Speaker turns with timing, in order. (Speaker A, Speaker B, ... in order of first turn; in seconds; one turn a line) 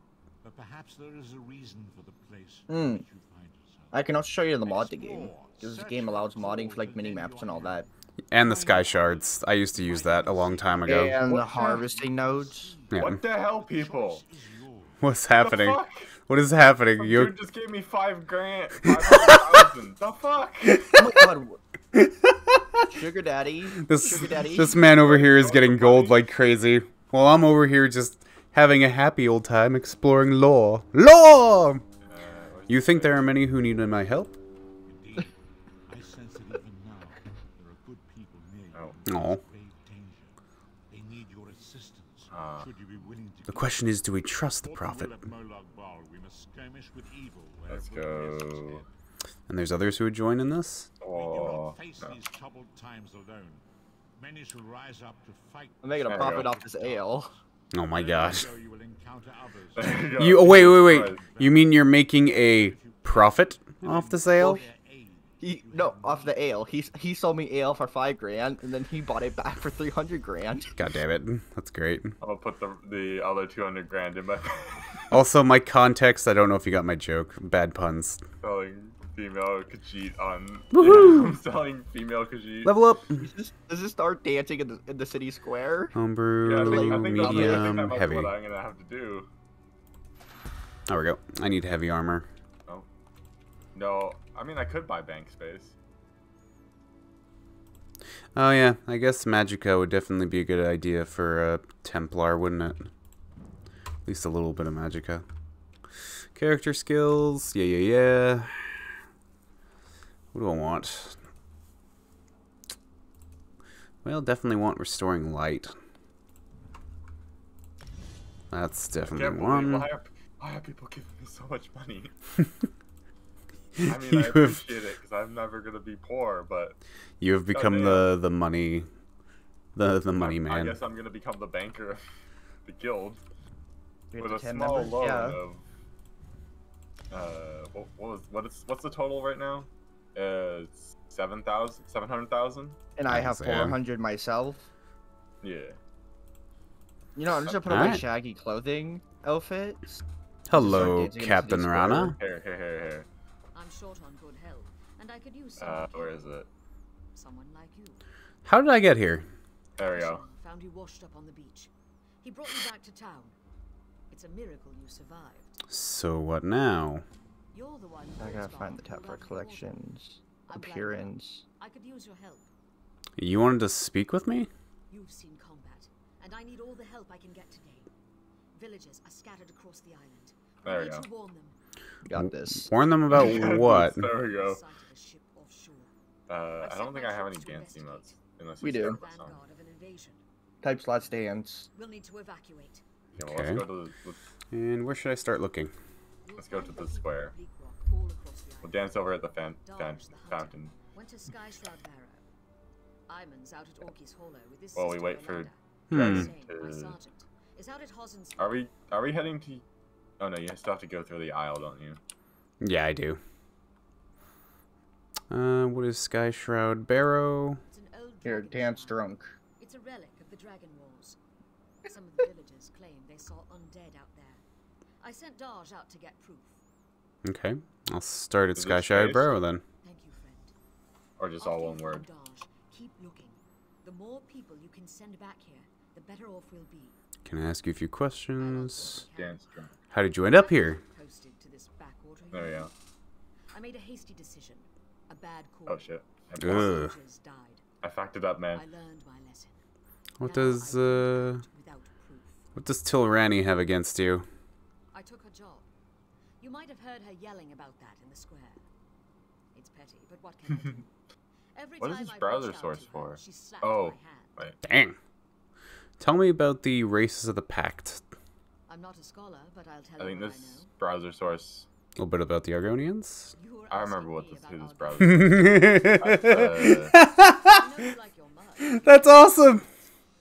Speaker A: 0.4-15.1
Speaker B: 2.7-3.0
Speaker B: 3.9-7.9
Speaker C: 8.3-11.2
Speaker B: 10.8-12.7
Speaker D: 11.3-11.8
Speaker C: 12.9-13.2
Speaker D: 13.0-14.2
Speaker C: 15.0-17.3
Speaker D: 15.4-16.1
Speaker D: 17.0-21.1
Speaker C: 18.8-19.4
Speaker C: 20.7-21.2
Speaker B: 20.9-21.6
Speaker C: 21.9-22.8
Speaker B: 22.9-24.8
Speaker C: 23.8-31.8
Speaker D: 24.8-26.3
Speaker D: 32.0-33.4
Speaker C: 32.7-34.3
Speaker A: 34.9-35.4
Speaker A: 35.9-40.4
Speaker C: 39.1-39.4
Speaker A: 40.9-48.9
Speaker D: 42.3-42.7
Speaker C: 43.5-45.2
Speaker D: 47.7-48.8
Speaker C: 49.5-50.9
Speaker D: 51.0-52.1
Speaker A: 51.1-53.6
Speaker A: 54.1-57.3
Speaker B: 55.8-57.3
Speaker D: 56.1-56.5
Speaker C: 57.7-58.5
Speaker A: 57.9-66.5
Speaker D: 59.8-61.2
Speaker C: 60.2-64.6
Speaker B: 65.4-70.7
Speaker C: 70.8-72.1
Speaker D: 72.2-75.0
Speaker C: 75.1-78.2
Speaker D: 78.4-82.9
Speaker C: 80.7-81.3
Speaker C: 82.6-83.2
Speaker B: 83.2-85.9
Speaker C: 85.9-88.3
Speaker D: 86.4-89.3
Speaker B: 86.6-87.8
Speaker C: 90.9-92.3
Speaker D: 93.7-95.7
Speaker C: 98.4-102.9
Speaker C: 104.0-105.2
Speaker C: 106.3-108.8
Speaker C: 110.3-111.2
Speaker C: 114.0-115.7
Speaker C: 118.5-119.9
Speaker D: 119.1-122.1
Speaker C: 123.8-124.6
Speaker D: 123.8-126.8
Speaker C: 127.2-128.9
Speaker D: 127.5-128.1
Speaker C: 129.8-130.8
Speaker D: 130.2-132.0
Speaker D: 132.6-133.2
Speaker B: 134.1-135.4
Speaker D: 134.2-135.7
Speaker D: 137.1-142.8
Speaker B: 143.0-144.7
Speaker C: 143.1-143.8
Speaker D: 145.4-145.8
Speaker B: 147.2-152.1
Speaker C: 147.7-148.0
Speaker C: 150.5-152.1
Speaker D: 151.9-153.1
Speaker E: 153.5-156.2
Speaker D: 155.6-156.5
Speaker E: 157.1-158.0
Speaker C: 158.4-159.2
Speaker D: 159.8-160.2
Speaker E: 159.8-161.7
Speaker E: 162.2-163.4
Speaker E: 164.1-165.6
Speaker C: 165.7-167.0
Speaker E: 167.5-169.8
Speaker B: 168.2-171.4
Speaker E: 170.4-172.5
Speaker C: 173.2-174.5
Speaker E: 174.9-177.9
Speaker E: 178.5-181.6
Speaker D: 180.6-181.1
Speaker B: 182.1-182.7
Speaker C: 182.1-184.1
Speaker D: 183.1-184.6
Speaker E: 184.0-185.9
Speaker D: 186.3-189.4
Speaker E: 186.6-190.2
Speaker B: 188.6-189.0
Speaker B: 190.6-191.7
Speaker E: 191.7-192.8
Speaker D: 193.2-194.2
Speaker C: 193.2-193.7
Speaker C: 194.5-195.7
Speaker E: 196.2-199.1
Speaker D: 196.4-197.3
Speaker D: 198.6-200.8
Speaker E: 199.6-202.2
Speaker E: 203.1-208.7
Speaker D: 204.7-207.0
Speaker C: 205.9-206.3
Speaker D: 208.4-209.6
Speaker D: 210.2-212.0
Speaker C: 212.6-213.2
Speaker C: 215.3-217.6
Speaker E: 217.7-219.0
Speaker B: 218.2-219.3
Speaker E: 219.6-221.2
Speaker E: 221.8-224.4
Speaker E: 225.0-226.6
Speaker C: 227.2-229.6
Speaker D: 228.6-229.3
Speaker E: 229.8-230.5
Speaker D: 231.2-232.1
Speaker E: 231.4-236.9
Speaker C: 237.2-239.0
Speaker E: 238.4-239.5
Speaker D: 239.1-239.7
Speaker C: 239.9-240.8
Speaker E: 240.2-242.7
Speaker D: 242.3-242.7
Speaker E: 243.5-247.6
Speaker D: 245.7-246.8
Speaker C: 246.4-246.9
Speaker D: 247.8-248.6
Speaker E: 248.5-249.6
Speaker C: 250.2-251.4
Speaker E: 250.2-252.4
Speaker C: 252.6-254.3
Speaker E: 254.9-255.7
Speaker E: 256.4-258.6
Speaker E: 259.5-260.9
Speaker E: 261.5-264.4
Speaker D: 261.8-264.6
Speaker C: 264.6-265.0
Speaker C: 266.0-268.0
Speaker E: 268.7-270.7
Speaker D: 270.0-271.7
Speaker C: 272.0-273.3
Speaker E: 273.3-279.9
Speaker D: 273.7-277.0
Speaker C: 275.0-277.8
Speaker C: 278.6-279.6